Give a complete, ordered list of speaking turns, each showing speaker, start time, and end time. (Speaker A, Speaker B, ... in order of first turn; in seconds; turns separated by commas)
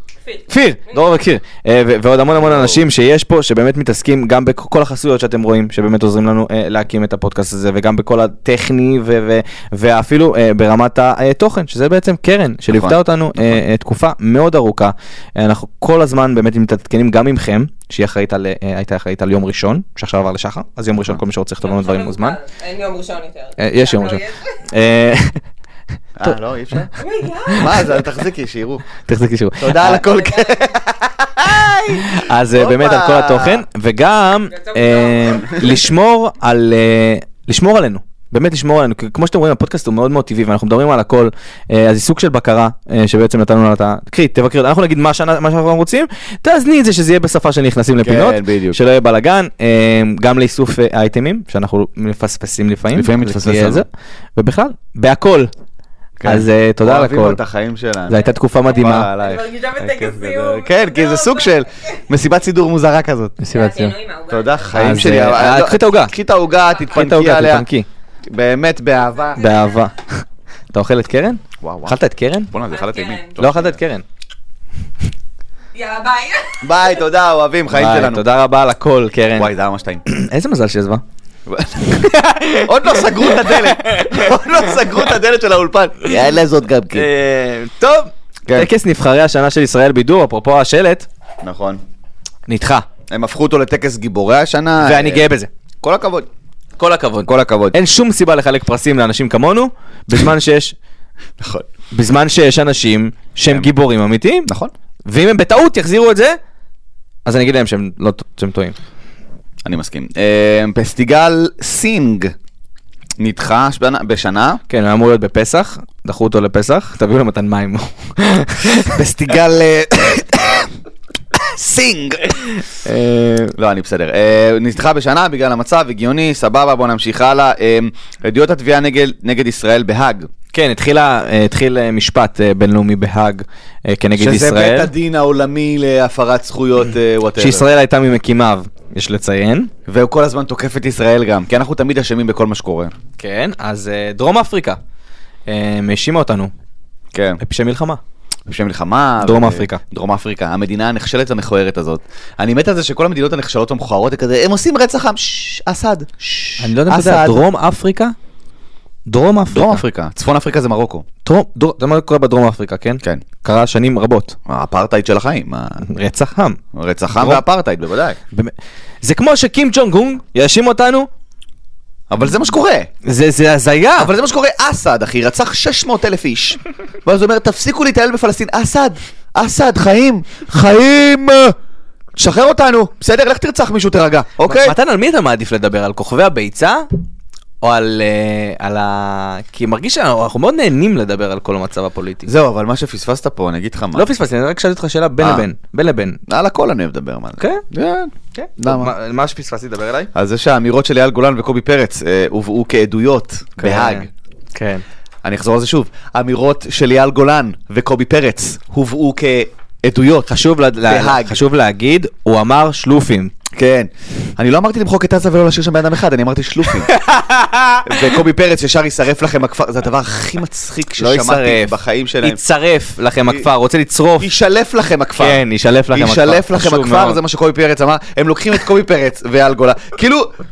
Speaker A: 0.2-1.1, Speaker B: 0.5-22.4, Speaker C: 2.3-2.9, Speaker C: 12.7-13.6, Speaker A: 21.6-24.5, Speaker B: 23.6-25.4, Speaker C: 26.2-26.9, Speaker A: 27.0-27.9, Speaker B: 27.5-27.9, Speaker C: 27.5-28.8, Speaker B: 29.1-30.0, Speaker C: 29.6-33.6, Speaker A: 29.8-30.8, Speaker B: 32.0-55.5, Speaker A: 34.5-35.8, Speaker C: 35.5-35.8, Speaker C: 48.0-48.8, Speaker C: 52.9-53.8, Speaker C: 56.2-58.2, Speaker B: 56.2-57.4, Speaker B: 58.1-59.1, Speaker A: 58.2-61.6, Speaker C: 58.8-63.4, Speaker B: 63.4-64.0, Speaker A: 63.5-64.8, Speaker C: 64.3-67.7, Speaker B: 64.7-66.1, Speaker B: 66.9-67.9, Speaker C: 68.3-69.4, Speaker A: 69.4-69.8, Speaker B: 69.4-70.2, Speaker B: 70.7-72.5, Speaker C: 71.6-72.0, Speaker C: 72.5-73.8, Speaker A: 72.7-73.4, Speaker B: 73.4-74.0, Speaker A: 75.7-76.9, Speaker C: 76.6-78.3, Speaker B: 77.7-79.5, Speaker C: 79.4-80.0, Speaker B: 80.1-81.0, Speaker C: 81.5-82.0, Speaker B: 81.9-84.3, Speaker C: 82.6-87.1, Speaker B: 86.9-91.1, Speaker C: 91.4-91.8, Speaker B: 92.5-92.9, Speaker C: 93.1-95.3, Speaker B: 94.8-95.5, Speaker C: 95.8-96.3, Speaker B: 96.8-100.8, Speaker C: 97.2-97.8, Speaker C: 101.4-101.7, Speaker B: 101.9-104.5, Speaker C: 104.5-104.7, Speaker B: 105.1-106.4, Speaker B: 107.2-108.8, Speaker C: 109.7-112.3, Speaker C: 113.2-114.6, Speaker B: 114.7-119.0, Speaker C: 118.9-120.7, Speaker C: 121.3-122.4, Speaker B: 122.8-123.6, Speaker C: 123.6-130.3, Speaker B: 130.5-134.9, Speaker C: 134.2-137.7, Speaker B: 137.4-139.7, Speaker C: 139.9-142.9, Speaker B: 143.2-144.8, Speaker B: 145.5-146.5, Speaker C: 147.1-147.4, Speaker B: 147.4-148.0, Speaker C: 148.5-157.4, Speaker B: 149.2-149.8, Speaker B: 156.6-158.2, Speaker B: 159.1-159.8, Speaker C: 159.5-161.1, Speaker B: 161.2-164.4, Speaker C: 164.5-165.8, Speaker B: 165.8-166.6, Speaker C: 166.7-168.2, Speaker B: 167.2-167.4, Speaker B: 168.3-171.1, Speaker C: 172.1-172.9, Speaker B: 173.1-174.1, Speaker C: 174.0-181.6, Speaker C: 182.2-184.8, Speaker B: 184.5-186.9, Speaker B: 187.6-192.3, Speaker C: 192.3-194.1, Speaker B: 193.9-196.2, Speaker C: 195.2-195.5, Speaker C: 196.3-198.9, Speaker B: 197.4-197.7, Speaker B: 198.3-200.1, Speaker C: 200.2-204.1, Speaker B: 203.6-204.8, Speaker C: 205.2-211.4, Speaker B: 210.3-213.3, Speaker C: 213.5-216.9, Speaker B: 216.8-218.1, Speaker C: 217.9-222.4, Speaker B: 221.0-224.3, Speaker C: 224.2-230.3, Speaker B: 225.2-227.2